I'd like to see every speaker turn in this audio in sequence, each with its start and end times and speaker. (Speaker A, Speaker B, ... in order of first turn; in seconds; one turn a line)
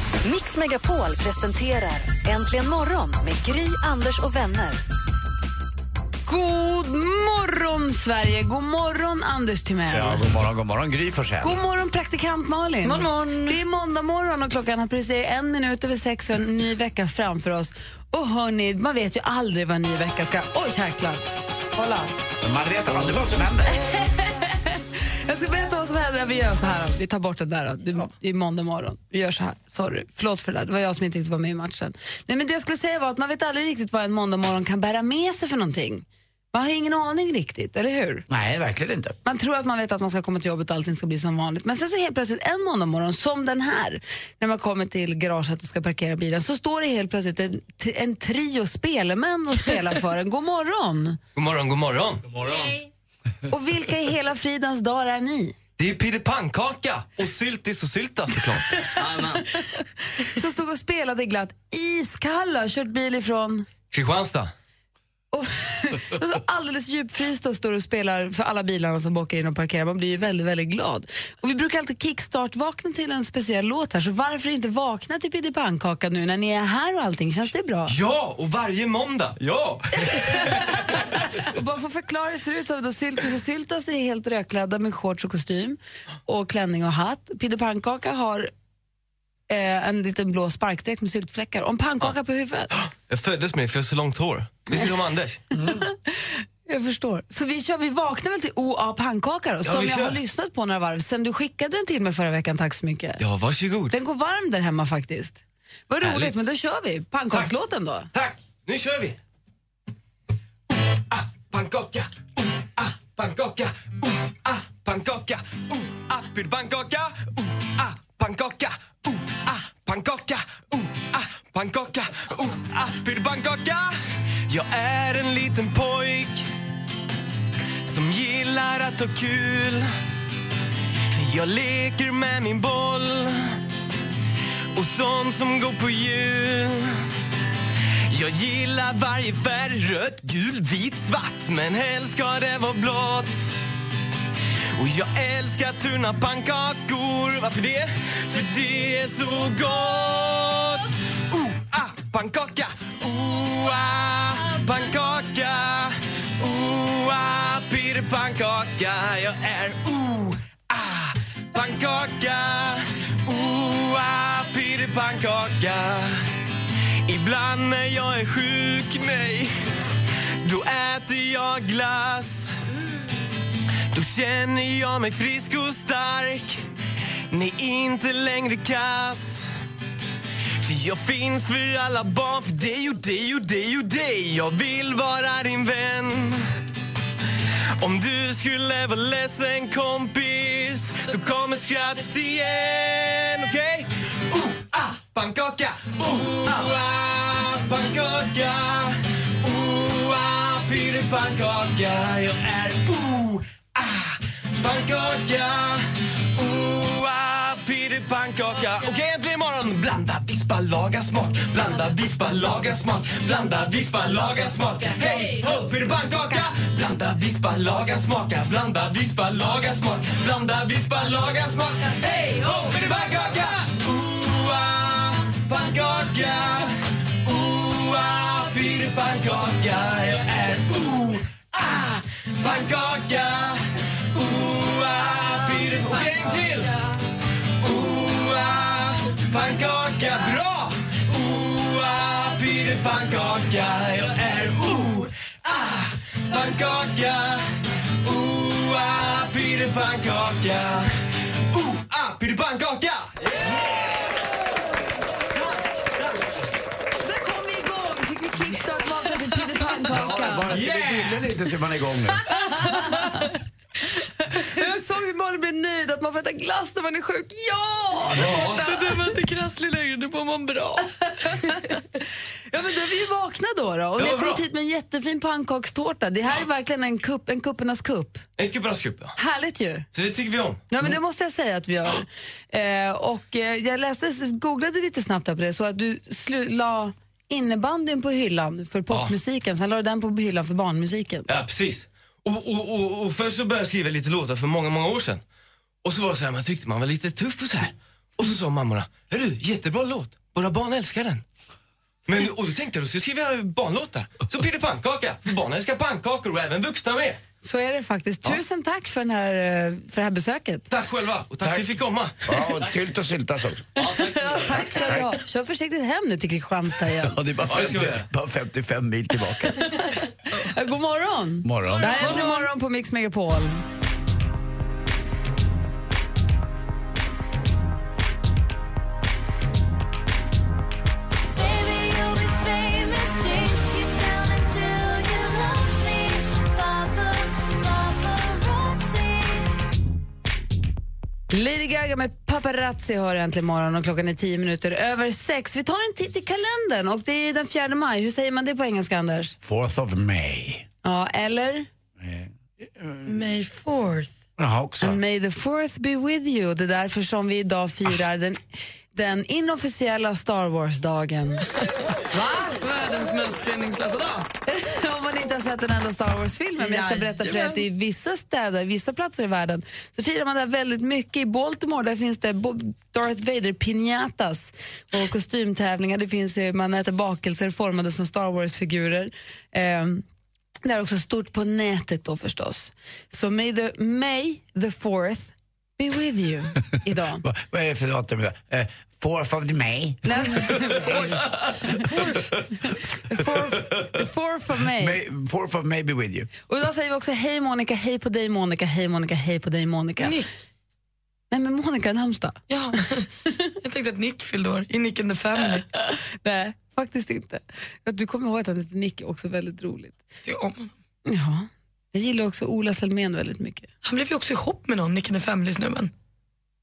Speaker A: 0.2-4.8
Speaker B: 6.3-10.2
Speaker C: 9.9-11.6
Speaker B: 11.4-21.2
Speaker D: 12.8-13.6
Speaker B: 21.8-22.1
Speaker C: 22.4-23.8
Speaker B: 23.7-38.2
Speaker C: 38.3-39.2
Speaker B: 39.2-51.2
Speaker E: 51.4-52.3
Speaker B: 53.5-55.6
Speaker E: 55.8-58.9
Speaker B: 59.2-63.7
Speaker E: 63.9-64.5
Speaker B: 65.3-77.9
Speaker E: 77.9-80.8
Speaker B: 80.0-88.5
Speaker B: 89.5-92.8
Speaker E: 92.7-95.4
Speaker B: 95.7-103.2
Speaker E: 99.6-100.2
Speaker E: 103.2-103.9
Speaker B: 103.9-108.1
Speaker E: 106.0-106.3
Speaker E: 108.1-109.2
Speaker E: 110.7-124.0
Speaker E: 124.5-126.5
Speaker E: 127.8-129.9
Speaker E: 131.1-133.5
Speaker E: 134.7-136.9
Speaker E: 138.1-143.5
Speaker E: 144.8-166.2
Speaker E: 167.1-169.6
Speaker E: 170.4-172.5
Speaker E: 173.9-176.6
Speaker E: 177.3-179.5
Speaker E: 180.6-186.4
Speaker E: 187.8-236.8
Speaker E: 237.6-247.5
Speaker E: 248.0-250.9
Speaker E: 251.5-254.4
Speaker E: 255.3-256.3
Speaker B: 257.0-260.5
Speaker C: 260.0-262.2
Speaker E: 260.3-261.3
Speaker B: 262.2-263.3
Speaker B: 263.8-269.1
Speaker E: 268.1-268.6
Speaker D: 268.4-271.7
Speaker B: 271.2-271.8
Speaker B: 272.5-278.2
Speaker E: 274.0-274.4
Speaker E: 278.4-279.1
Speaker B: 279.2-279.9
Speaker E: 279.9-280.6
Speaker B: 280.7-291.3
Speaker E: 291.3-295.2
Speaker E: 295.8-301.2
Speaker E: 302.1-307.2
Speaker B: 307.4-310.6
Speaker E: 310.7-312.2
Speaker C: 312.2-313.8
Speaker B: 313.8-317.2
Speaker E: 314.0-314.2
Speaker C: 317.1-319.8
Speaker E: 317.4-318.1
Speaker B: 319.5-323.6
Speaker C: 321.4-322.2
Speaker A: 331.4-339.4
Speaker B: 341.3-349.4
Speaker C: 349.4-350.7
Speaker B: 350.8-351.7
Speaker C: 352.0-353.2
Speaker D: 353.0-354.2
Speaker C: 354.4-355.0
Speaker B: 354.8-358.4
Speaker B: 358.9-361.4
Speaker B: 362.1-362.6
Speaker D: 362.6-364.3
Speaker B: 364.5-380.1
Speaker D: 366.6-367.6
Speaker B: 380.6-387.2
Speaker C: 387.2-392.2
Speaker B: 390.1-395.0
Speaker C: 394.7-396.3
Speaker B: 396.5-400.2
Speaker D: 400.0-400.3
Speaker B: 401.3-402.4
Speaker D: 402.5-403.1
Speaker D: 403.6-405.7
Speaker B: 405.8-410.0
Speaker D: 410.2-410.7
Speaker B: 411.1-413.7
Speaker D: 413.8-415.9